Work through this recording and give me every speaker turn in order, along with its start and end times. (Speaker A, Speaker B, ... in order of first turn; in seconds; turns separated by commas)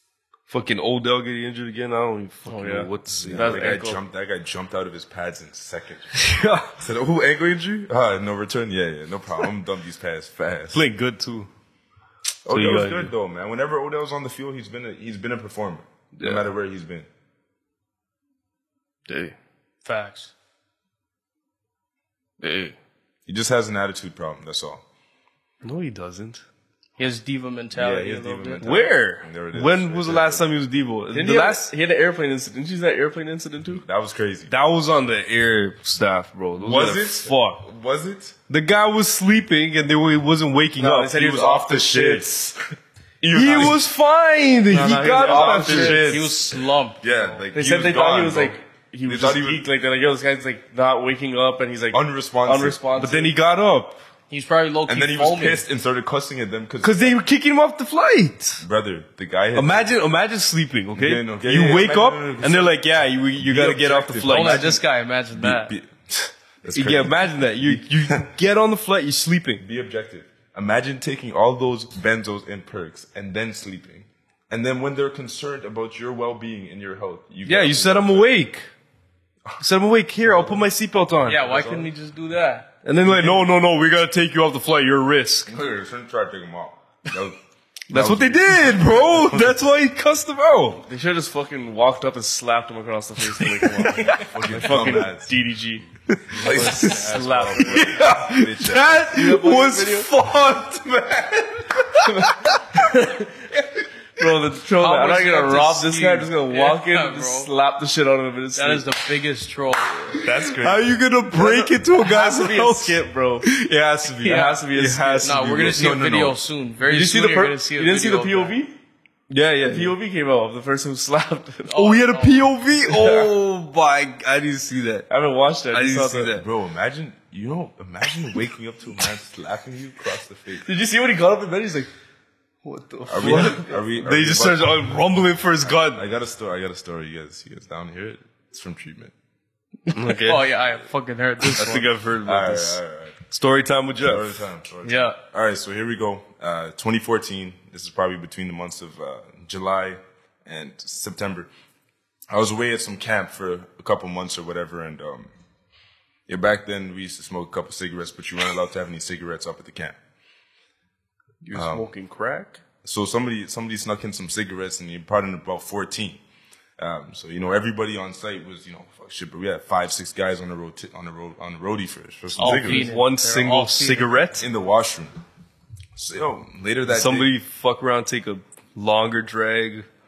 Speaker A: 0.5-3.8, Speaker B: 2.5-4.0, Speaker C: 3.2-10.8, Speaker A: 6.1-6.7, Speaker A: 10.7-11.5, Speaker C: 12.4-17.1, Speaker A: 12.5-13.1, Speaker A: 16.2-16.5, Speaker A: 19.1-19.4, Speaker D: 19.8-20.3, Speaker A: 22.4-22.8, Speaker C: 23.2-24.8, Speaker A: 25.6-26.4, Speaker D: 27.0-28.7, Speaker C: 27.7-30.4, Speaker A: 28.6-31.7, Speaker B: 31.1-33.8, Speaker C: 33.7-34.5, Speaker A: 34.5-37.6, Speaker C: 36.6-38.4, Speaker A: 38.5-42.2, Speaker B: 40.8-42.4, Speaker C: 41.3-42.5, Speaker C: 43.2-43.8, Speaker A: 43.3-46.3, Speaker B: 44.7-46.3, Speaker C: 45.2-45.6, Speaker D: 45.5-47.4, Speaker C: 47.0-49.6, Speaker B: 47.5-53.3, Speaker C: 51.9-52.8, Speaker A: 53.0-54.0, Speaker D: 54.3-55.6, Speaker C: 54.9-57.2, Speaker A: 56.8-58.6, Speaker C: 58.6-59.9, Speaker A: 59.5-64.7, Speaker C: 60.9-62.8, Speaker C: 63.4-64.8, Speaker D: 64.3-65.7, Speaker C: 65.3-68.2, Speaker A: 66.7-69.6, Speaker C: 69.6-78.3, Speaker A: 77.5-78.7, Speaker A: 79.6-81.5, Speaker C: 80.2-80.7, Speaker D: 81.2-82.7, Speaker C: 81.3-81.9, Speaker A: 82.8-85.5, Speaker C: 83.1-83.3, Speaker C: 85.5-87.4, Speaker C: 87.9-89.6, Speaker A: 87.9-90.8, Speaker B: 90.9-95.8, Speaker A: 93.4-95.0, Speaker C: 94.1-95.3, Speaker A: 96.1-102.6, Speaker C: 96.3-99.0, Speaker B: 96.4-98.0, Speaker B: 99.0-100.1, Speaker B: 102.0-103.4, Speaker B: 104.2-108.9, Speaker D: 104.8-107.5, Speaker D: 108.5-110.4, Speaker A: 110.2-115.8, Speaker B: 110.3-110.5, Speaker B: 111.3-113.5, Speaker D: 114.2-114.6, Speaker B: 114.2-115.4, Speaker D: 115.2-118.6, Speaker C: 115.3-116.4, Speaker B: 116.8-118.7, Speaker A: 119.3-120.0, Speaker B: 119.6-121.7, Speaker D: 121.7-122.5, Speaker A: 121.7-125.1, Speaker B: 122.8-123.3, Speaker B: 125.1-126.3, Speaker A: 125.7-126.5, Speaker C: 126.1-130.7, Speaker B: 130.6-131.9, Speaker A: 132.6-136.0, Speaker C: 133.1-135.0, Speaker B: 133.2-133.7, Speaker C: 135.6-139.1, Speaker A: 139.9-140.5, Speaker D: 140.0-141.9, Speaker A: 141.4-144.4, Speaker C: 141.6-143.2, Speaker C: 144.0-151.5, Speaker D: 144.8-145.2, Speaker C: 152.3-155.3, Speaker C: 156.3-159.9, Speaker A: 161.4-162.6, Speaker C: 161.5-161.9, Speaker C: 162.8-166.2, Speaker C: 166.8-172.9, Speaker A: 172.3-174.5, Speaker D: 172.3-174.1, Speaker C: 174.4-175.2, Speaker C: 175.9-177.3, Speaker A: 176.9-179.9